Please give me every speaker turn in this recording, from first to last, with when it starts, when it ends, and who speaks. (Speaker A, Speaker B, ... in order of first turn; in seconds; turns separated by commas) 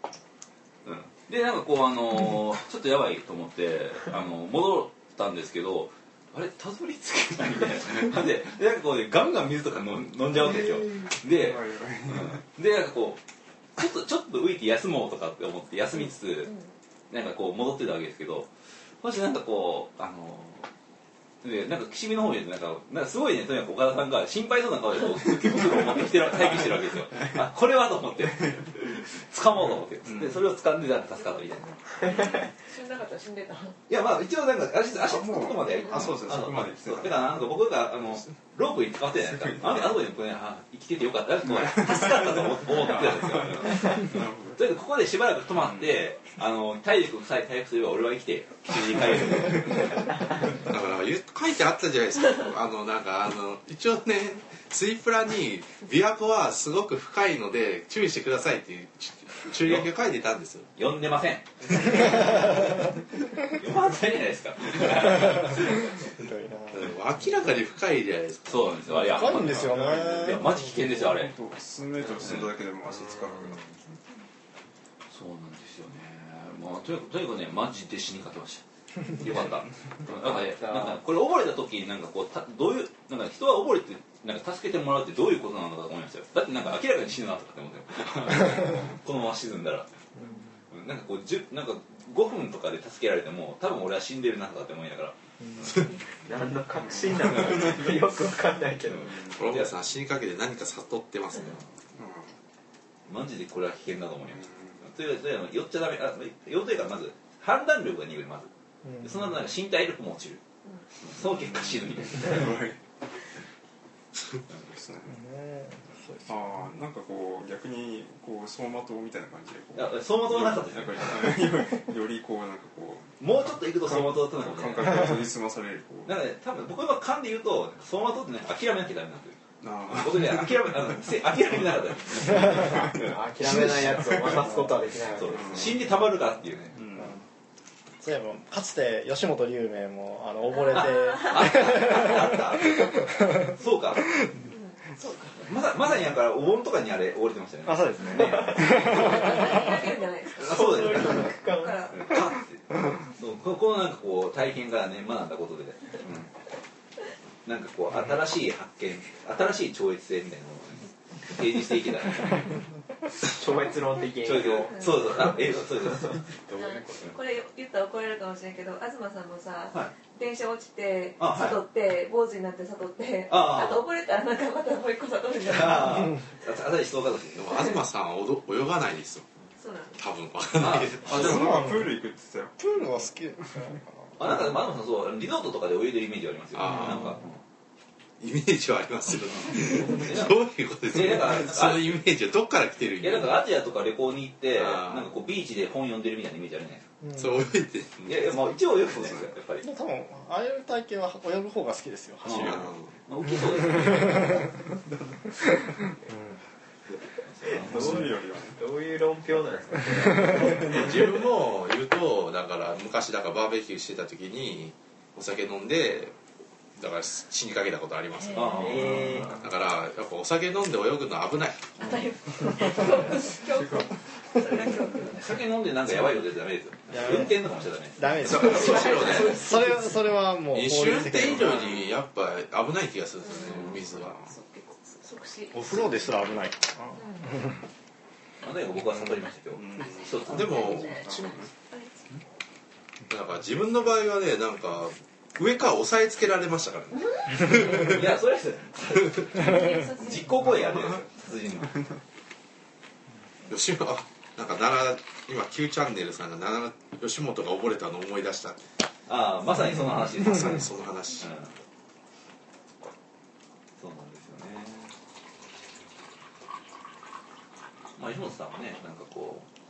Speaker A: 0.8-13.2, Speaker B: 10.3-12.4, Speaker A: 13.8-16.5, Speaker A: 17.1-18.5, Speaker A: 19.0-20.7, Speaker A: 21.4-31.7, Speaker B: 28.3-28.7, Speaker B: 30.0-30.5, Speaker C: 31.2-33.8, Speaker A: 33.9-50.2, Speaker B: 34.9-40.1, Speaker C: 35.7-36.2, Speaker B: 41.4-44.8, Speaker D: 50.7-60.7, Speaker A: 59.6-59.9, Speaker A: 60.8-62.9, Speaker A: 63.5-66.0, Speaker E: 65.0-66.9, Speaker D: 66.7-68.7, Speaker A: 68.5-71.4, Speaker E: 69.0-70.6, Speaker B: 69.0-73.6, Speaker A: 72.2-72.5, Speaker F: 72.9-73.6, Speaker A: 75.1-89.9, Speaker F: 80.0-81.0, Speaker B: 88.6-88.9, Speaker A: 90.7-95.9, Speaker F: 96.3-99.2, Speaker B: 96.8-98.1, Speaker A: 98.9-99.7, Speaker B: 99.0-99.4, Speaker D: 99.3-101.6, Speaker B: 101.9-102.3, Speaker A: 103.1-108.5, Speaker B: 104.3-104.9, Speaker E: 108.8-109.3, Speaker A: 109.0-110.4, Speaker A: 111.0-112.5, Speaker B: 111.2-112.8, Speaker B: 114.5-115.2, Speaker E: 115.1-116.5, Speaker B: 116.3-126.2, Speaker A: 119.8-121.5, Speaker A: 123.2-125.3, Speaker A: 126.0-129.4, Speaker B: 129.6-131.0, Speaker A: 129.9-132.9, Speaker B: 132.2-134.6, Speaker F: 133.0-135.7, Speaker E: 134.2-134.8, Speaker A: 135.2-136.8, Speaker B: 135.3-135.9, Speaker B: 136.7-137.2, Speaker E: 137.0-137.2, Speaker E: 138.0-143.5, Speaker C: 140.7-141.1, Speaker A: 140.7-144.1, Speaker C: 144.5-145.4, Speaker A: 145.4-149.5, Speaker E: 147.7-149.7, Speaker F: 148.1-149.5, Speaker C: 148.8-152.2, Speaker A: 150.3-151.4, Speaker F: 150.3-152.0, Speaker A: 151.9-156.3, Speaker A: 157.4-162.5, Speaker F: 163.2-165.5, Speaker A: 164.2-166.3, Speaker C: 164.7-165.0, Speaker B: 166.5-167.0, Speaker C: 166.6-176.2, Speaker A: 171.2-171.6, Speaker A: 173.3-173.8, Speaker A: 175.4-177.8, Speaker D: 177.4-179.2, Speaker C: 179.6-180.0, Speaker D: 179.9-181.6, Speaker A: 180.6-181.4, Speaker B: 181.1-182.6, Speaker E: 181.2-181.9, Speaker E: 182.6-184.2, Speaker A: 184.2-187.4, Speaker D: 186.5-187.2, Speaker D: 188.2-193.4, Speaker A: 189.3-192.0, Speaker A: 193.0-196.9, Speaker D: 194.5-195.1, Speaker D: 197.1-199.1, Speaker A: 198.1-199.7, Speaker E: 199.6-202.7, Speaker A: 202.2-204.5, Speaker D: 202.4-202.9, Speaker E: 203.6-204.4, Speaker A: 207.3-208.1, Speaker F: 207.6-210.9, Speaker B: 207.6-208.6, Speaker B: 210.3-211.0, Speaker D: 210.6-216.2, Speaker D: 216.8-218.7, Speaker A: 218.3-219.4, Speaker C: 218.4-218.7, Speaker F: 218.5-219.5, Speaker D: 219.4-221.8, Speaker C: 221.8-225.3, Speaker B: 222.7-224.9, Speaker A: 225.1-229.4, Speaker E: 226.9-231.7, Speaker D: 228.2-229.4, Speaker C: 228.5-229.6, Speaker D: 230.5-234.2, Speaker C: 233.2-233.7, Speaker B: 233.4-234.3, Speaker C: 234.3-235.6, Speaker E: 235.5-237.6, Speaker C: 237.0-237.3, Speaker A: 238.4-240.7, Speaker B: 238.8-241.5, Speaker D: 240.2-241.0, Speaker C: 240.2-242.1, Speaker D: 243.1-248.1, Speaker A: 247.6-251.8, Speaker C: 249.3-250.6, Speaker D: 253.5-258.6, Speaker A: 259.1-260.7, Speaker D: 260.2-261.4, Speaker A: 261.2-261.5, Speaker A: 263.8-264.9, Speaker A: 268.0-269.5